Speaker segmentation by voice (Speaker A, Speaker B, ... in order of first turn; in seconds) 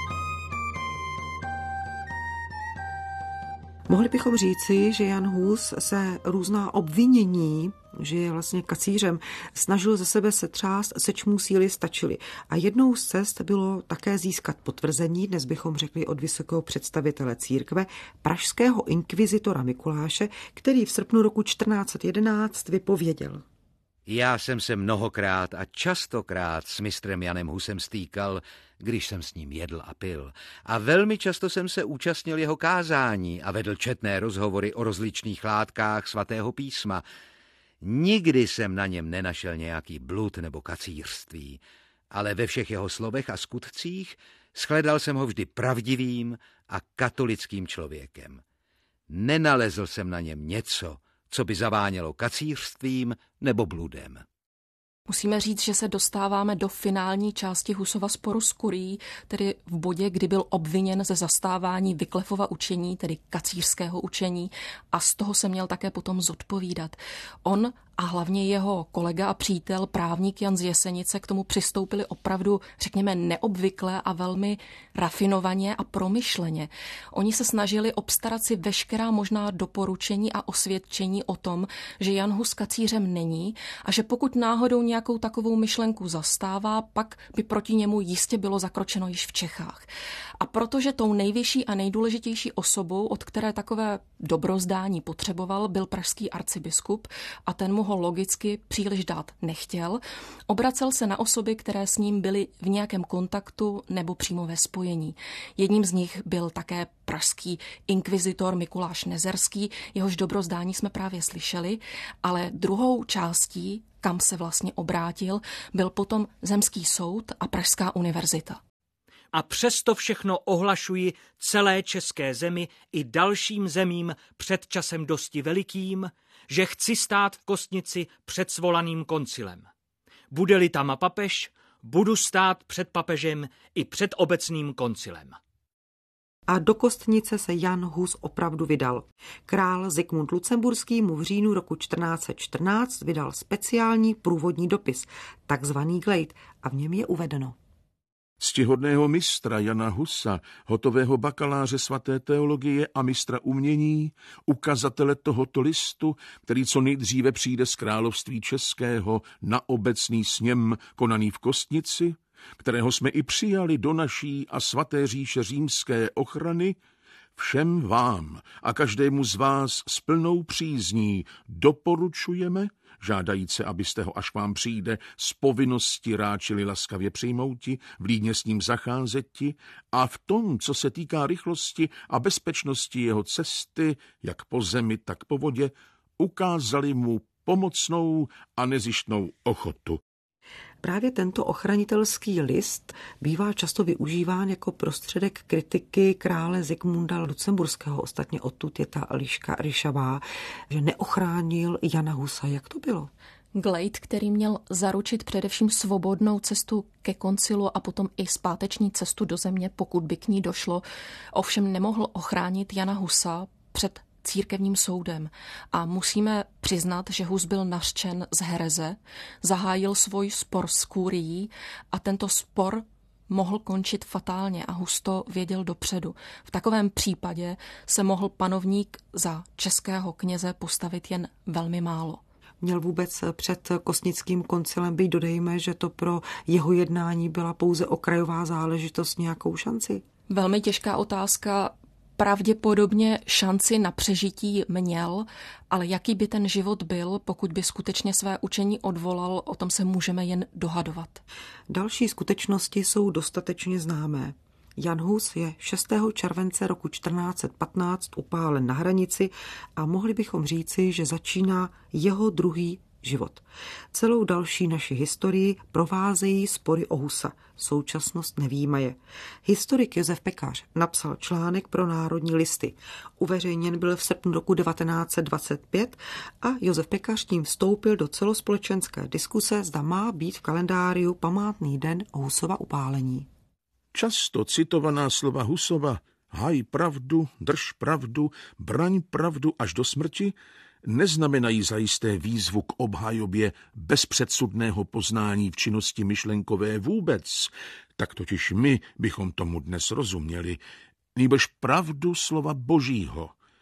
Speaker A: 3.9-23.4, 136.5-147.6, 190.8-203.1, 232.6-240.0, 251.7-283.3
Speaker B: 24.1-37.0, 37.8-48.4, 49.1-54.2
Speaker C: 55.1-89.9, 90.4-118.6, 203.5-232.2, 240.3-251.2
Speaker D: 119.3-129.7, 130.3-135.4
Speaker E: 148.4-166.8, 167.4-190.0, 283.9-300.6, 301.1-303.3